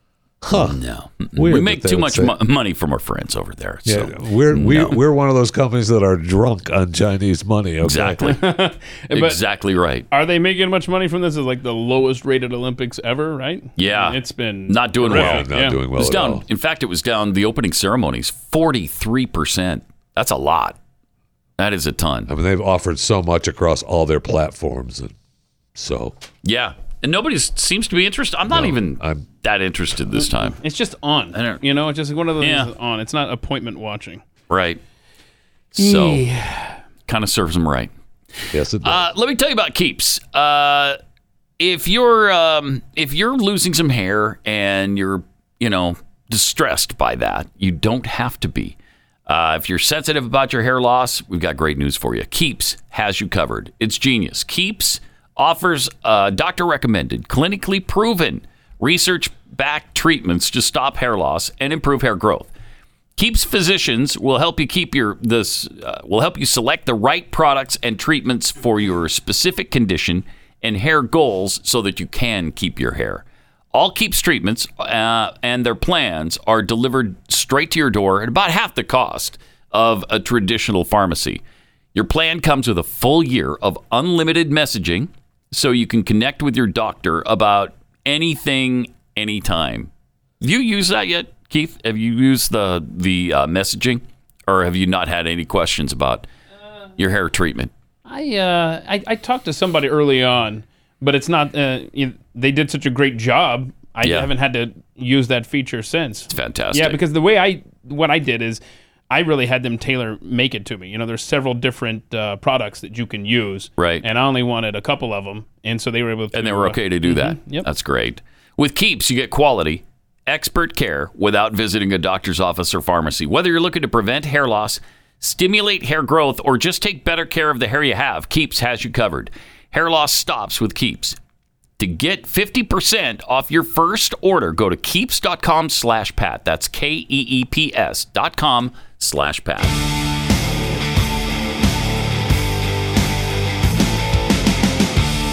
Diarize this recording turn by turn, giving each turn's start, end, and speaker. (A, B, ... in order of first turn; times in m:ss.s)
0:00.4-0:00.8 A
0:00.5-0:05.0 B
0:01.3-0:02.3 A
0:03.8-0:08.2 A
0:07.8-0:08.4 B
0:08.2-0:09.4 C
0:09.1-0:10.1 B
0:10.1-0:15.8 C
0:13.8-0:20.8 B
0:15.0-0:16.4 A
0:21.6-0:22.3 B
0:22.3-0:25.1 A
0:25.7-0:26.2 A
0:26.4-0:30.6 B
0:28.5-0:29.3 A
0:30.2-0:34.2 C
0:31.3-0:31.6 B
0:32.4-0:32.7 B
0:34.5-0:34.8 B
0:35.7-0:36.2 B
0:35.8-0:36.8 C
0:37.1-0:37.9 B
0:38.5-0:39.0 A
0:38.8-0:41.0 B
0:41.6-0:48.8 B
0:49.3-1:02.5 B
1:03.2-1:21.4 B
1:21.9-1:29.9 B
1:30.4-1:36.2 B
1:37.0-1:37.7 B
1:38.0-1:57.6 C
1:44.0-1:44.3 B
1:46.3-1:47.0 B
1:53.8-1:54.0 B
1:56.3-2:11.2 B
2:11.8-2:19.8 B